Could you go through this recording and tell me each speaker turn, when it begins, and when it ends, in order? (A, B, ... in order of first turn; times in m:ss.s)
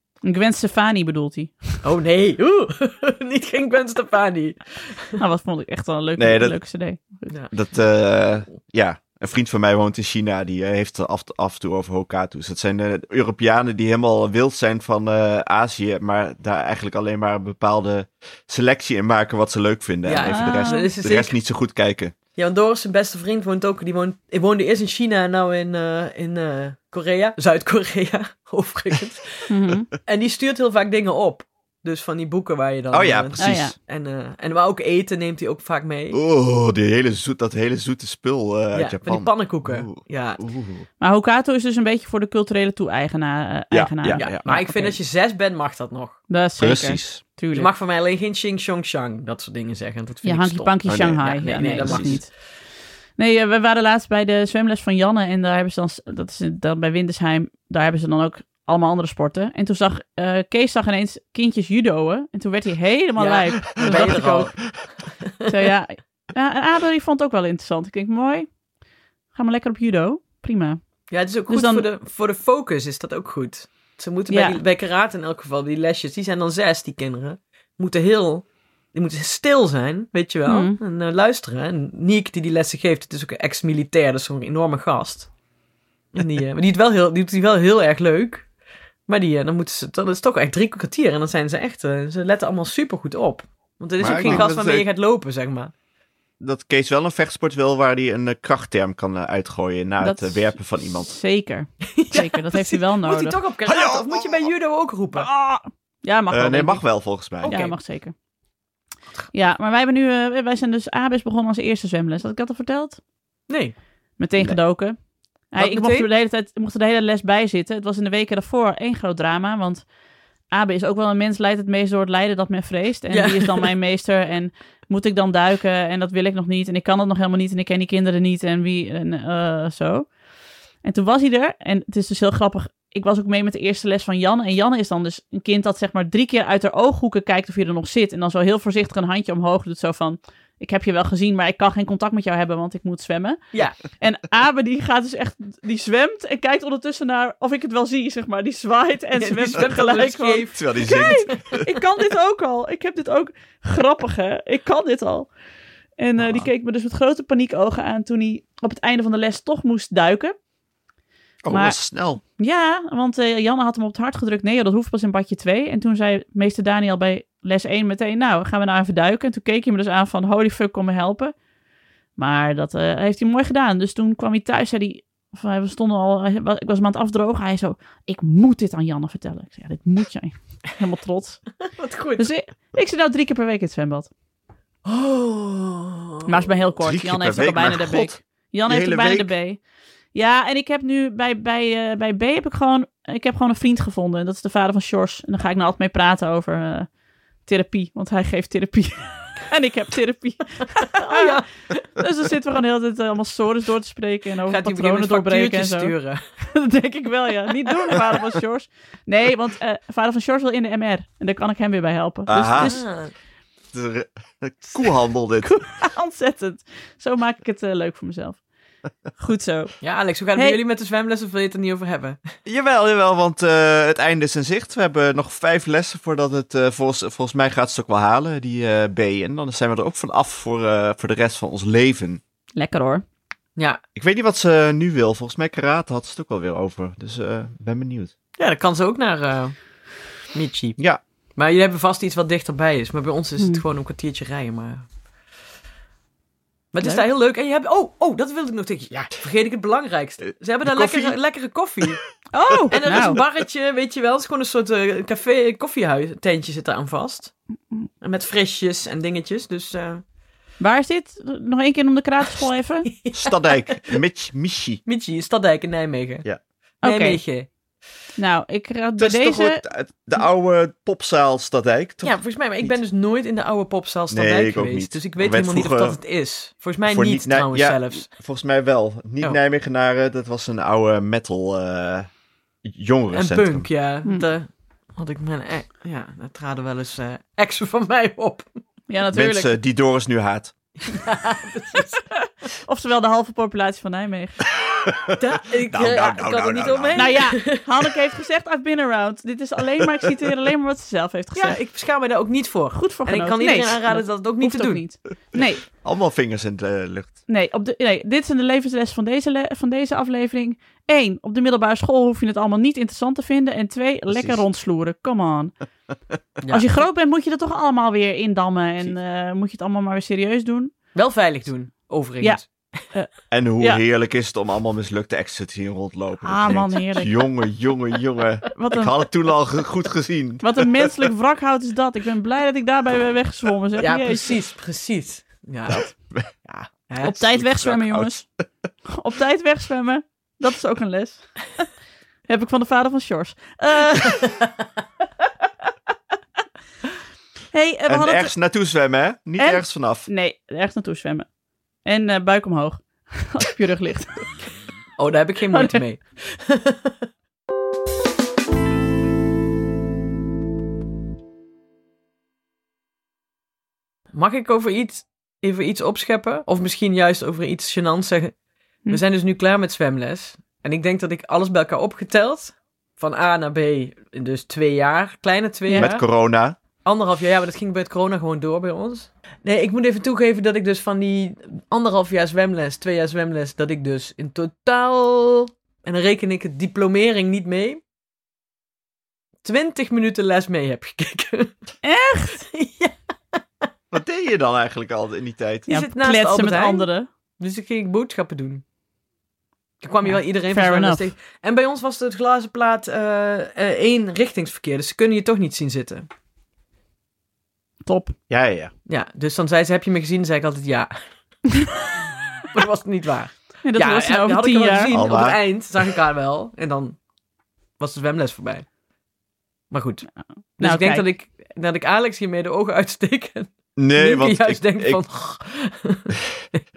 0:00.2-0:01.8 A
0:01.8-0:05.2 B
0:05.2-0:07.3 A
0:06.2-0:06.6 C
0:07.3-0:07.5 B
0:07.5-0:22.1 C
0:20.0-0:21.3 B
0:20.2-0:20.9 A
0:22.4-0:36.2 B
0:29.5-0:29.9 A
0:32.9-0:33.7 C
0:33.4-0:33.7 A
0:36.1-0:40.8 C
0:38.7-0:40.4 B
0:41.0-0:44.9 A
0:43.7-0:44.6 C
0:44.2-0:46.2 B
0:46.3-0:47.7 A
0:46.6-0:47.2 C
0:47.5-0:52.2 B
0:50.2-0:52.3 A
0:50.8-0:52.2 C
0:53.2-1:04.6 A
1:03.2-1:04.8 B
1:05.5-1:08.5 A
1:09.3-1:10.8 A
1:11.1-1:25.3 B
1:11.5-1:11.8 A
1:14.3-1:14.6 A
1:20.5-1:20.8 A
1:26.1-1:28.5 B
1:29.1-1:35.7 B
1:34.0-1:34.8 C
1:34.2-1:34.5 A
1:36.4-1:41.1 C
1:40.0-1:43.4 A
1:42.0-1:45.3 B
1:43.7-1:44.5 C
1:45.1-1:48.1 A
1:46.3-1:47.6 C
1:47.4-1:47.8 B
1:49.3-1:53.0 A
1:53.5-1:53.8 B
1:54.2-1:55.0 A
1:55.5-1:59.9 A
1:55.6-1:56.1 B
2:00.5-2:10.2 A
2:03.1-2:03.7 B
2:10.8-2:35.3 A
2:23.5-2:23.8 B
2:29.2-2:31.6 B
2:30.5-2:31.3 C
2:36.0-2:40.3 A
2:41.4-2:42.2 C
2:41.5-2:51.3 A
2:52.2-3:01.6 A
3:01.7-3:02.2 B
3:02.2-3:04.1 A
3:04.8-3:06.3 B
3:06.2-3:09.6 A
3:06.8-3:09.3 C
3:10.1-3:16.9 A
3:17.4-3:21.4 A
3:21.0-3:21.8 B
3:21.9-3:32.8 A
3:24.5-3:26.2 B
3:32.3-3:32.8 C
3:32.6-3:33.1 B
3:33.7-3:35.6 C
3:35.4-3:38.4 A
3:39.1-3:39.8 A
3:39.8-3:42.2 B
3:42.4-3:52.2 C
3:52.6-3:53.0 A
3:53.6-3:53.8 B
3:54.0-3:58.1 C
3:58.4-4:04.8 B
4:06.7-4:12.0 B
4:10.6-4:11.2 C
4:12.3-4:13.2 A
4:12.7-4:17.3 B
4:12.9-4:13.2 C
4:18.0-4:20.0 B
4:20.6-4:22.9 A
4:22.8-4:23.9 B
4:23.1-4:24.8 C
4:24.8-4:26.2 B
4:26.8-4:27.5 B
4:26.8-4:27.2 A
4:28.2-4:29.6 A
4:29.0-4:32.7 C
4:32.0-4:38.1 B
4:34.1-4:36.0 C
4:36.9-4:42.1 C
4:42.6-4:43.7 C
4:43.1-4:48.6 B
4:48.9-4:49.5 A
4:49.1-4:50.8 C
4:50.8-4:52.1 B
4:52.6-4:54.4 A
4:54.6-4:55.2 C
4:55.1-4:57.6 B
4:55.7-4:57.2 C
4:57.0-5:01.6 A
5:01.3-5:04.8 B
5:02.7-5:05.6 A
5:05.6-5:07.2 C
5:07.3-5:15.5 A
5:16.4-5:16.7 B
5:16.5-5:20.7 A
5:20.9-5:22.8 B
5:22.9-5:23.8 A
5:23.3-5:30.9 C
5:26.2-5:27.2 A
5:28.6-5:28.9 A
5:30.4-5:34.4 A
5:33.8-5:35.8 B
5:35.7-5:38.4 C
5:36.9-5:37.2 B
5:37.0-5:38.2 A
5:38.9-5:41.6 A
5:42.3-5:44.3 A
5:47.5-5:48.3 A
5:47.9-5:50.1 C
5:49.4-5:51.3 A
5:51.8-5:54.3 A
5:55.0-5:56.9 B
5:55.5-5:55.8 A
6:04.1-6:08.4 B
6:08.9-6:16.1 B
6:15.7-6:15.9 A
6:15.8-6:16.6 C
6:16.8-6:27.8 B
6:29.4-6:31.6 B
6:31.8-6:32.4 A
6:32.3-6:33.7 B
6:33.9-6:35.7 C
6:35.7-6:36.9 B
6:35.7-6:37.1 A
6:37.4-6:38.6 B
6:39.8-6:46.1 B
6:40.0-6:41.0 A
6:47.8-6:48.2 A
6:48.3-6:48.7 C
6:48.9-6:51.1 B
6:52.5-6:57.0 B
6:53.6-6:54.9 A
6:54.9-6:55.4 C
6:57.8-6:58.7 B
6:59.7-7:06.6 B
7:00.6-7:01.0 A
7:03.8-7:05.0 C